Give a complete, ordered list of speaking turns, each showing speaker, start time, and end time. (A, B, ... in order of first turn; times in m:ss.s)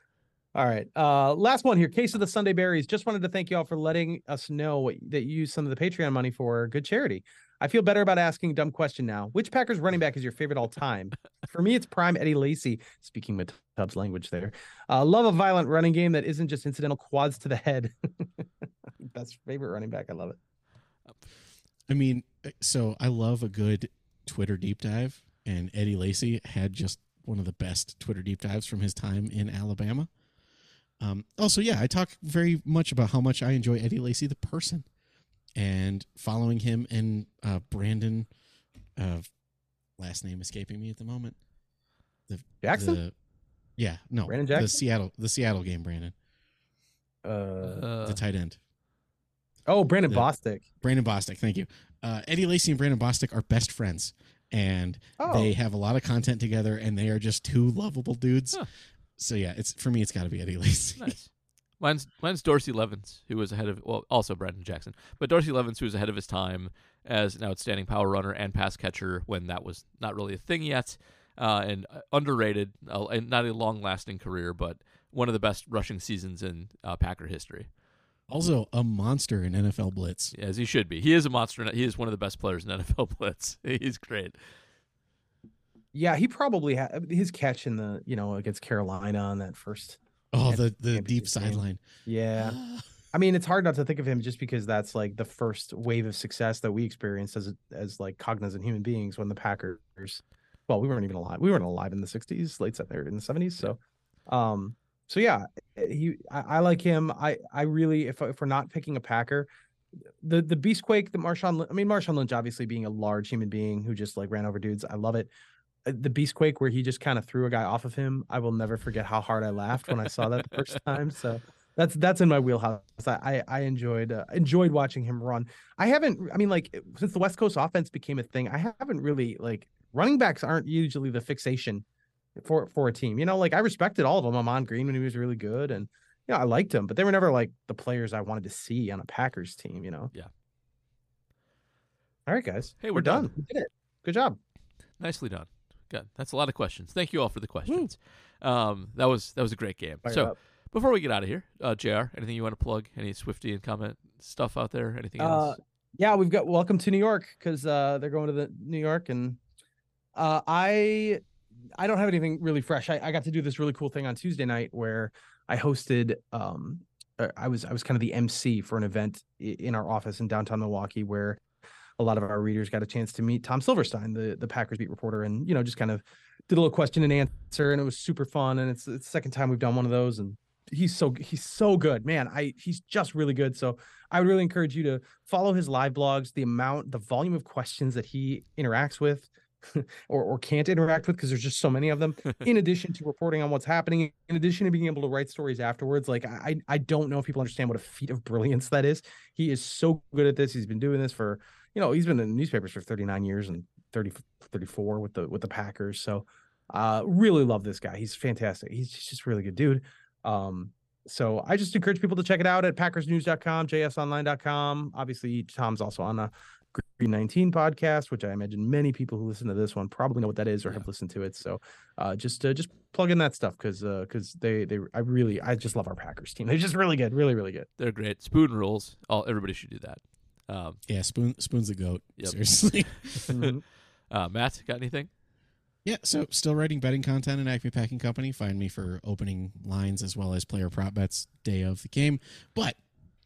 0:00.5-0:18.4 A
0:19.0-0:20.4 A
0:21.9-0:30.1 B
0:31.0-0:34.8 B
0:35.6-0:38.3 B
0:39.0-0:39.2 B
0:40.0-0:41.4 B
0:42.3-0:43.1 B
0:42.6-0:43.0 A
0:43.8-0:46.1 B
0:44.3-0:44.7 A
0:47.2-0:47.8 A
0:47.6-0:48.2 C
0:48.0-0:48.6 B
0:49.7-0:50.6 A
0:50.8-0:58.6 B
0:55.2-0:55.5 A
0:59.2-1:01.2 B
1:01.0-1:17.7 C
1:18.3-1:20.3 B
1:20.3-1:24.4 C
1:25.9-1:32.6 A
1:30.3-1:31.8 B
1:32.4-1:32.8 B
1:33.1-1:49.5 A
1:50.2-1:55.3 A
1:55.8-2:11.8 A
2:12.4-2:20.1 A
2:22.3-2:24.4 A
2:22.8-2:23.3 C
2:25.0-2:35.6 C
2:30.0-2:30.3 A
2:35.2-2:39.4 A
2:40.1-2:41.2 A
2:41.8-2:51.4 A
2:52.0-3:47.7 A
3:47.8-3:50.8 C
3:50.9-3:53.3 B
3:53.2-3:53.5 C
3:53.3-3:53.6 A
3:54.1-3:55.1 C
3:55.8-4:02.8 B